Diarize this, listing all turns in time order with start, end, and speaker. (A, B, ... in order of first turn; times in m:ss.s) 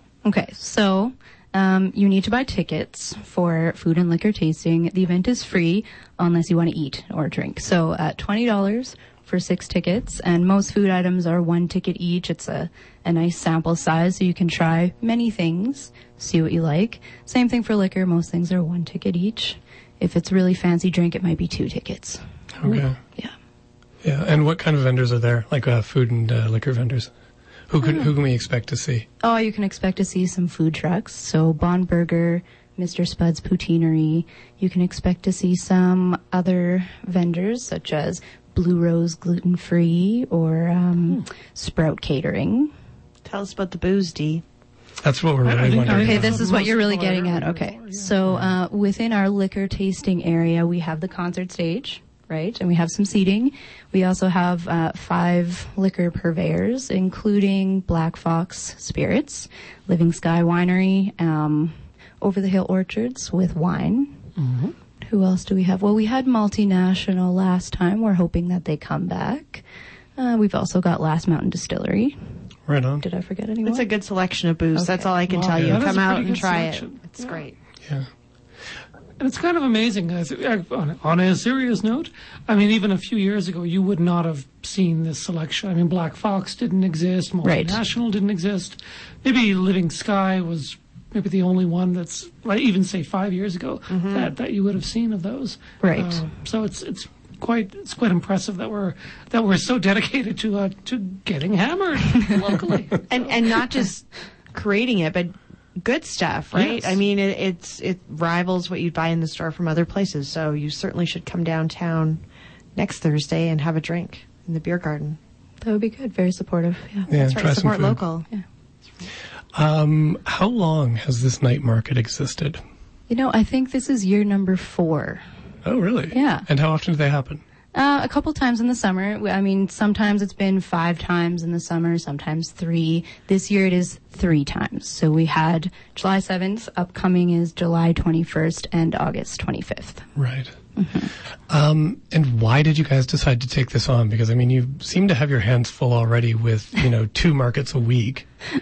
0:00.2-0:23.3 A
0:22.6-0:23.0 B
0:24.0-0:27.1 B
0:27.7-0:29.1 B
0:27.8-0:28.1 A
0:29.2-0:42.7 A
0:43.2-0:44.4 C
0:45.0-0:46.4 B
0:45.4-0:48.4 D
0:45.9-1:04.2 A
1:04.4-1:04.7 D
1:05.0-1:09.6 A
1:10.2-1:12.2 A
1:12.7-1:13.0 B
1:13.0-1:13.9 A
1:13.6-1:17.5 C
1:14.7-1:15.1 A
1:15.3-1:17.4 D
1:15.5-1:15.9 B
1:19.2-1:43.5 D
1:27.4-1:27.8 A
1:33.9-1:34.3 C
1:35.8-1:36.2 A
1:43.1-1:52.2 C
1:46.5-1:47.0 D
1:52.7-1:55.2 C
1:55.6-1:57.1 A
1:57.1-1:58.0 B
1:57.1-1:58.3 C
1:59.5-2:02.6 B
2:03.1-2:05.2 A
2:05.6-2:07.4 B
2:06.1-2:06.4 A
2:07.7-2:20.0 A
2:20.2-2:20.5 B
2:20.8-2:21.1 A
2:21.5-2:28.3 B